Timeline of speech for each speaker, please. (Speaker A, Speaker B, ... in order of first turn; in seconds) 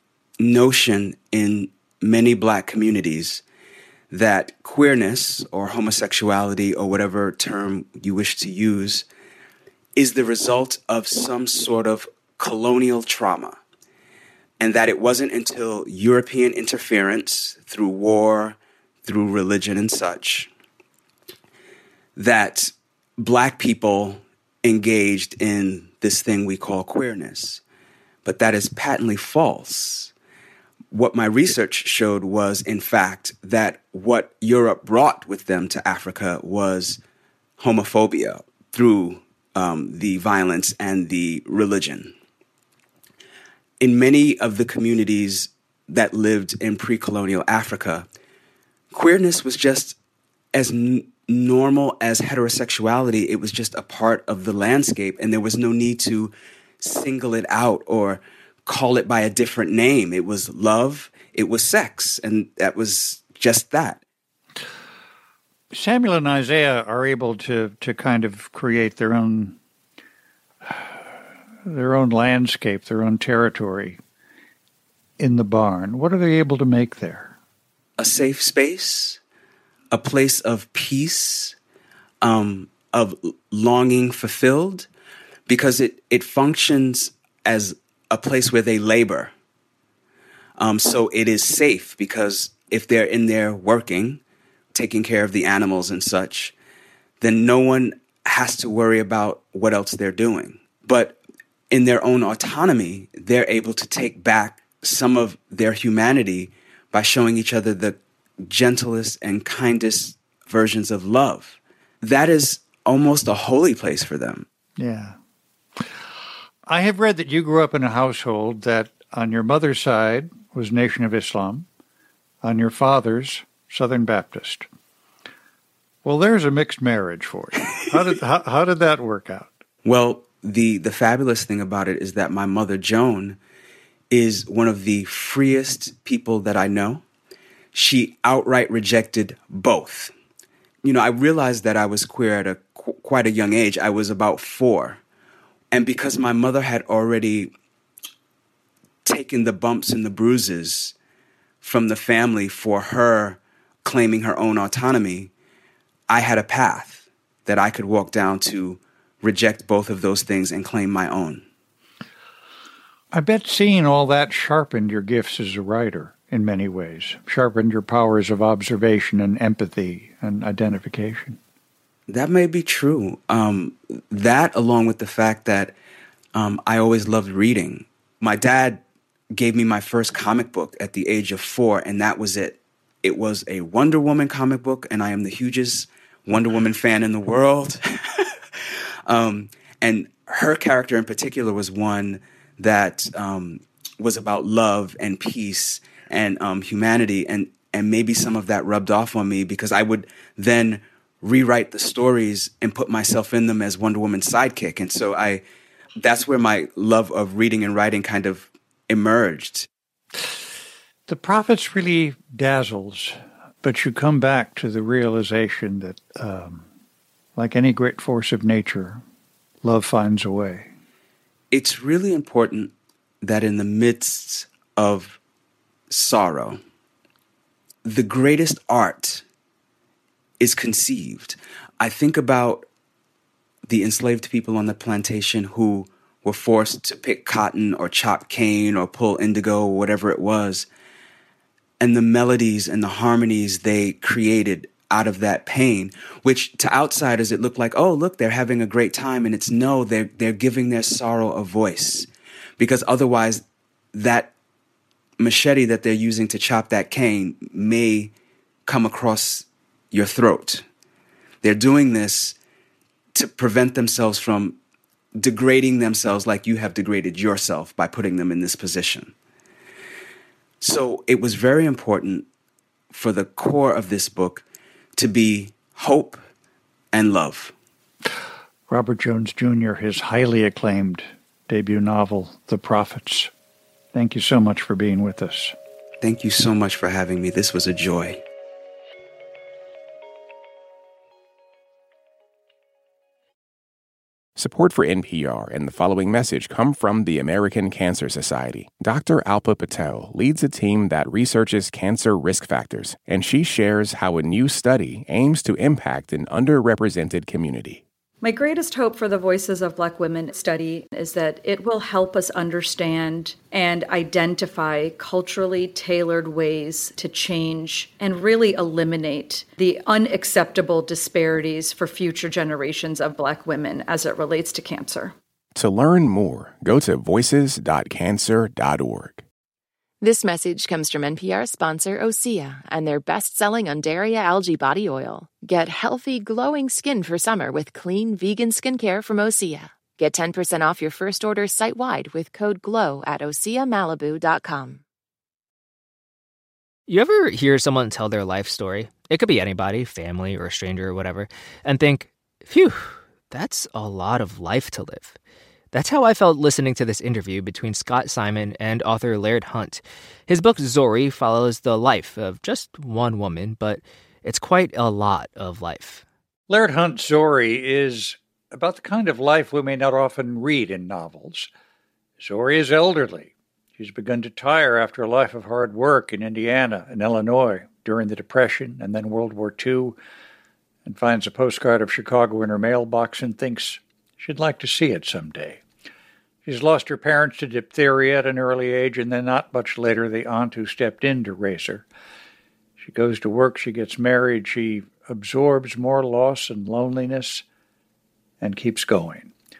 Speaker A: 0.4-3.4, 4.1-9.1, 10.0-13.6, 14.6-20.5, 22.1-27.6, 28.2-30.1, 30.9-37.0, 37.6-42.1, 43.8-48.1, 48.9-50.0, 50.5-64.0, 78.0-79.2, 79.9-81.5, 82.2-84.9, 85.5-89.3, 90.6-94.2, 94.7-96.5, 97.2-101.2, 101.7-114.5, 129.8-133.4, 134.1-137.0, 137.7-140.1, 140.8-145.0, 145.7-147.5, 149.0-150.9, 151.6-155.3, 156.1-161.4, 172.1-175.7, 176.3-178.8, 179.3-188.2, 189.1-205.4, 206.0-209.7, 221.5-225.2, 225.9-226.6, 227.8-229.2, 230.4-232.7, 233.7-240.7, 241.8-252.1, 252.6-254.3, 255.2-258.1, 258.6-260.6, 261.4-262.4, 263.1-264.6, 265.1-269.1, 270.6-272.2, 272.9-274.4, 275.0-276.2, 276.9-277.5, 286.0-288.2
Speaker B: 65.7-69.6, 71.7-74.0, 75.2-77.3, 114.8-115.2, 116.7-121.7, 122.4-124.7, 126.0-129.5, 163.1-171.4, 211.1-216.6, 217.3-219.0, 219.6-220.7, 278.7-283.3, 283.9-285.5, 366.5-371.5, 372.2-380.0, 380.9-385.6, 386.4-391.9, 392.8-397.4, 398.4-399.3
Speaker C: 294.4-307.8, 325.6-329.2
Speaker D: 308.2-325.1
Speaker E: 330.0-344.8
Speaker F: 346.9-355.2, 355.7-366.0